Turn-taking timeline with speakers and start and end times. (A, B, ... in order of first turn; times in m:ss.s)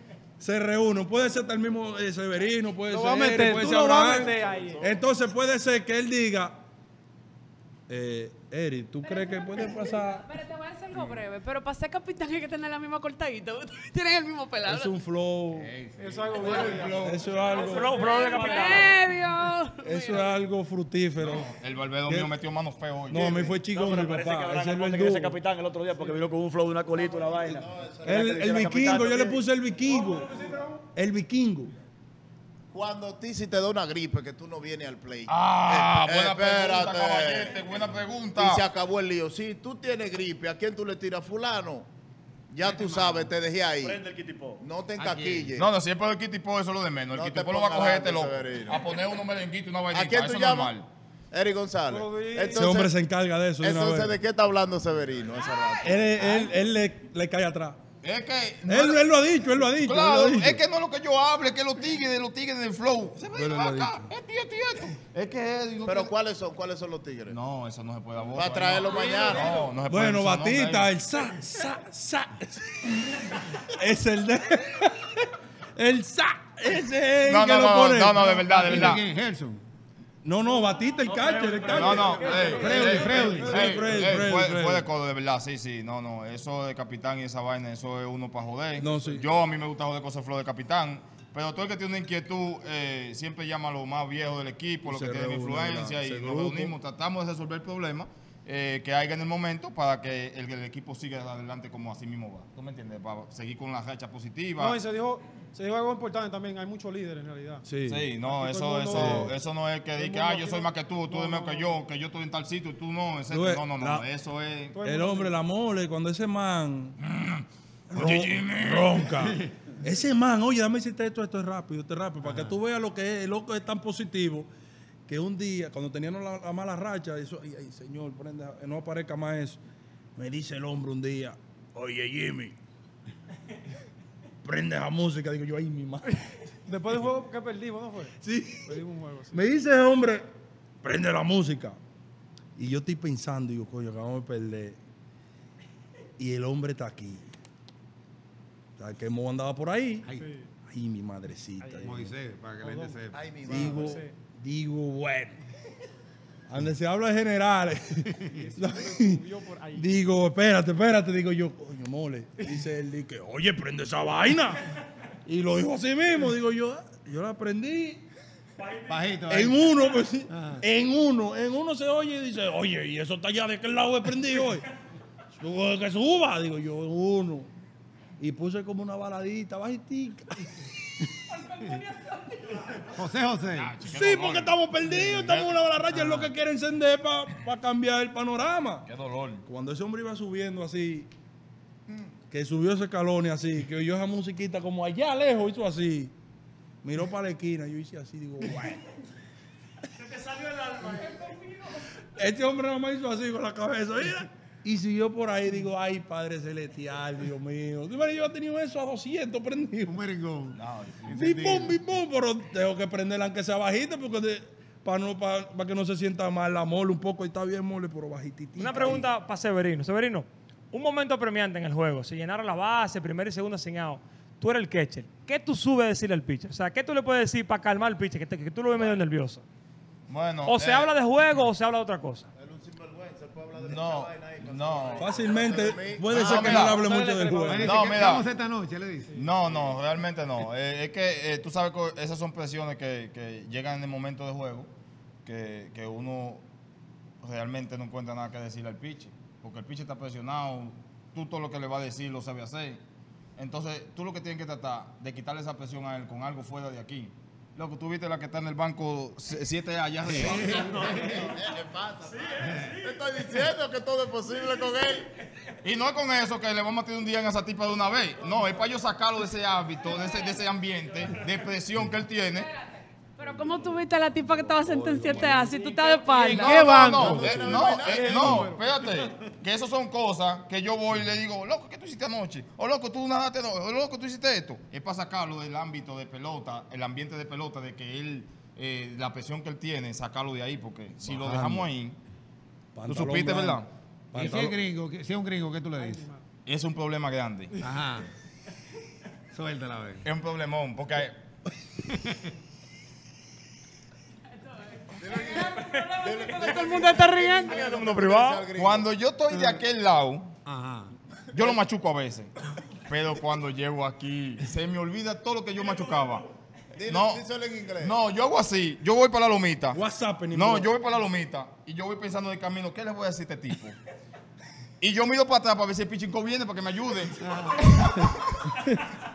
0:00.4-0:06.6 A
0:02.9-0:04.8 B
0:03.9-0:05.1 C
0:07.9-0:10.2 A
0:09.0-0:15.0 D
0:14.6-0:15.7 A
0:15.5-0:17.0 E
0:16.0-0:17.1 B
0:16.3-0:20.3 D
0:16.4-0:17.8 C
0:17.0-0:18.0 A
0:17.5-0:19.0 F
0:19.8-0:21.5 A
0:21.2-0:23.5 G
0:22.1-0:22.3 A
0:23.1-0:25.4 A
0:23.7-0:29.4 H
0:26.8-0:28.7 C
0:28.0-0:30.4 A
0:29.8-0:30.8 B
0:30.9-0:31.7 A
0:32.7-0:37.8 C
0:35.3-0:38.6 G
0:38.3-0:41.9 C
0:42.5-0:44.0 C
0:42.6-0:43.3 E
0:43.8-0:44.6 H
0:44.6-0:45.7 C
0:45.0-0:45.6 E
0:45.6-0:50.8 G
0:47.1-0:48.9 C
0:49.9-0:50.7 C
0:51.3-0:52.9 C
0:51.9-0:52.7 B
0:52.5-0:54.2 A
0:53.6-0:56.5 C
0:55.8-0:57.8 A
0:58.0-0:59.0 G
0:58.7-1:00.6 A
0:59.8-1:06.1 G
1:03.3-1:04.1 A
1:05.8-1:07.4 C
1:07.3-1:10.9 G
1:08.3-1:09.7 C
1:09.8-1:18.9 A
1:17.2-1:19.0 G
1:18.3-1:19.6 E
1:20.2-1:22.2 A
1:20.5-1:23.9 B
1:21.2-1:22.6 F
1:21.2-1:22.4 H
1:21.7-1:44.8 G
1:22.5-1:23.8 E
1:22.7-1:24.9 A
1:28.8-1:29.3 A
1:34.8-1:36.7 A
1:44.6-1:47.6 B
1:47.6-1:48.1 A
1:47.9-1:54.8 G
1:48.2-1:49.4 B
1:48.9-1:49.4 A
1:50.0-1:51.8 B
1:53.3-1:54.1 A
1:54.7-1:55.4 B
1:54.8-1:57.0 A
1:57.0-1:59.0 G
1:57.9-2:04.5 A
2:02.3-2:02.5 E
2:05.1-2:09.6 A
2:10.2-2:12.5 A
2:14.4-2:17.0 A
2:16.6-2:19.4 B
2:18.2-2:20.3 A
2:20.8-2:21.8 A
2:22.6-2:24.8 A
2:26.2-2:27.3 A
2:28.8-2:30.1 A
2:30.1-2:30.5 B
2:30.6-2:32.1 A
2:31.6-2:32.0 B
2:31.8-2:33.8 E
2:32.6-2:33.0 B
2:33.1-2:34.0 C
2:33.5-2:35.4 A
2:33.6-2:34.1 B
2:36.5-2:39.2 A
2:38.2-2:39.9 B
2:39.7-2:44.6 A
2:45.2-2:48.0 A
2:48.6-2:50.0 F
2:48.9-2:49.7 E
2:49.3-2:54.6 A
2:50.3-2:50.6 E
2:55.3-2:57.5 A
2:58.2-3:01.6 A
3:02.5-3:02.8 F
3:02.8-3:03.7 E
3:03.5-3:04.6 G
3:03.8-3:08.9 A
3:04.8-3:05.3 E
3:05.2-3:05.6 G
3:05.9-3:06.3 E
3:08.8-3:09.4 G
3:09.4-3:11.1 A
3:12.3-3:16.1 A
3:16.8-3:19.0 A
3:19.9-3:21.8 F
3:22.2-3:30.0 A
3:29.8-3:31.8 E
3:30.5-3:31.2 G
3:31.1-3:39.0 A
3:38.6-3:49.4 F
3:50.1-3:50.9 G
3:50.4-3:52.3 F
3:52.4-3:56.7 C
3:53.6-3:55.3 G
3:55.0-3:57.8 A
3:56.1-3:56.8 G
3:56.2-3:56.6 E
3:56.6-3:58.1 B
3:57.5-3:59.1 E
3:57.6-3:58.3 G
3:59.2-4:04.7 G
3:59.5-3:59.8 C
4:05.2-4:06.4 G
4:07.2-4:12.8 G
4:13.4-4:20.9 G
4:20.1-4:21.3 E
4:20.3-4:25.1 C
4:22.1-4:23.0 F
4:25.6-4:32.5 G
4:30.0-4:30.3 D
4:32.4-4:37.1 D
4:33.3-4:36.6 A
4:36.2-4:52.0 G
4:36.3-4:38.6 B
4:36.9-4:38.6 C
4:51.0-4:51.7 E
4:52.7-4:54.6 A
4:52.9-4:53.7 G
4:54.1-4:56.0 E
4:55.8-4:56.2 B
4:56.4-4:57.5 G
4:57.6-4:58.1 E
4:59.3-5:00.0 E
5:00.0-5:01.2 G
5:01.8-5:02.3 E
5:04.7-5:07.6 D
5:05.0-5:08.9 C
5:05.6-5:06.8 F
5:07.4-5:08.5 F
5:07.6-5:10.3 G
5:10.4-5:10.9 E
5:11.3-5:12.3 G
5:12.9-5:16.2 G
5:15.6-5:16.2 F
5:16.8-5:18.0 C
5:16.9-5:17.2 G
5:17.8-5:19.8 G
5:19.7-5:20.7 A
5:20.3-5:23.8 G
5:24.8-5:28.5 G
5:27.4-5:27.8 A